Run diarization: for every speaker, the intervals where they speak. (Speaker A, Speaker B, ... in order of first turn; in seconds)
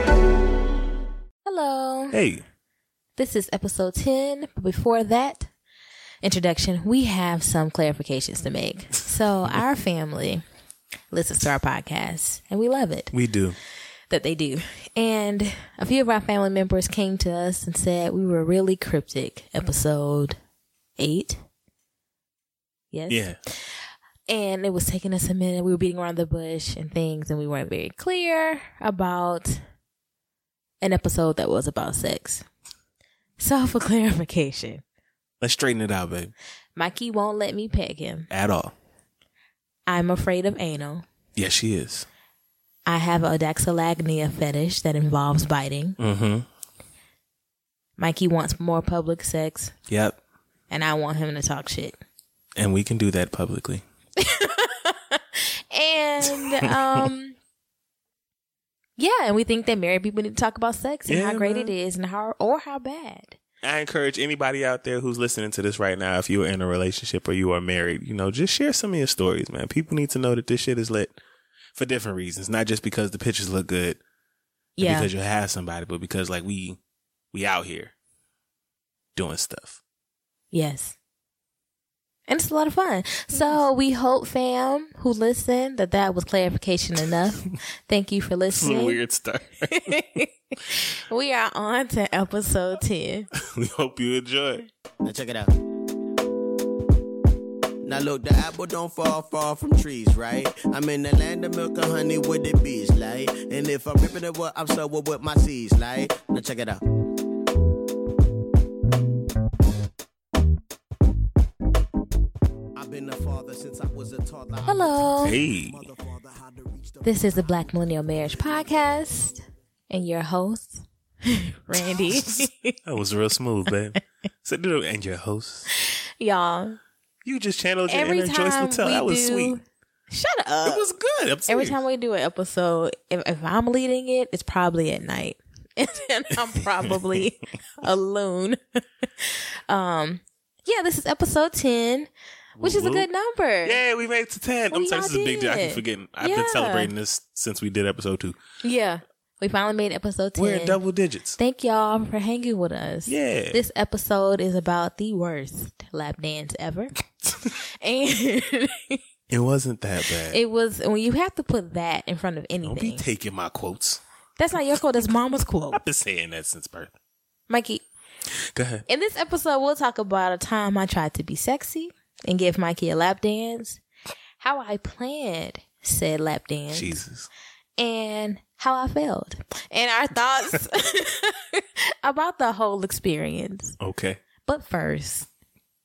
Speaker A: 1.4-2.2, 3.2-5.5, 6.2-10.4, 11.1-13.1, 14.1-20.4, 21.0-21.4, 22.9-23.6, 24.3-29.6, 30.8-32.5, 33.4-34.8, 36.8-38.3, 39.9-41.0, 42.9-46.0, 48.0-49.8, 50.7-52.0, 54.2-57.4, 59.0-63.4, 74.8-75.1, 80.5-81.0, 82.3-89.0, 89.7-93.3, 114.7-115.4, 117.0-119.3, 119.9-122.8, 125.7-126.8, 127.9-130.9, 131.5-138.6, 139.2-143.8, 144.7-146.9, 148.6-150.8, 151.4-157.0, 157.5-159.0, 160.3-163.0, 164.4-165.8, 167.5-167.8, 168.9-173.8, 174.4-177.0, 177.8-183.8, 184.5-185.3
Speaker B: 2.1-2.4, 13.1-13.6, 23.1-23.4, 35.4-36.3, 38.3-38.7, 41.4-42.1, 46.0-46.5, 49.9-50.2, 52.6-53.8, 56.2-57.1, 61.1-61.7, 63.6-71.2, 71.8-74.0, 74.8-76.8, 77.3-77.9, 79.2-79.8, 88.5-90.0, 93.3-94.7, 115.2-115.8, 122.0-125.7, 127.2-129.6, 130.6-131.8, 136.8-137.2, 142.6-143.1, 143.7-148.4, 150.4-151.4, 153.1-153.6, 159.3-160.4, 162.6-164.0, 165.7-166.9, 168.5-168.8, 176.7-177.3, 183.8-184.2
Speaker C: 95.0-95.5, 97.8-106.8, 112.8-119.4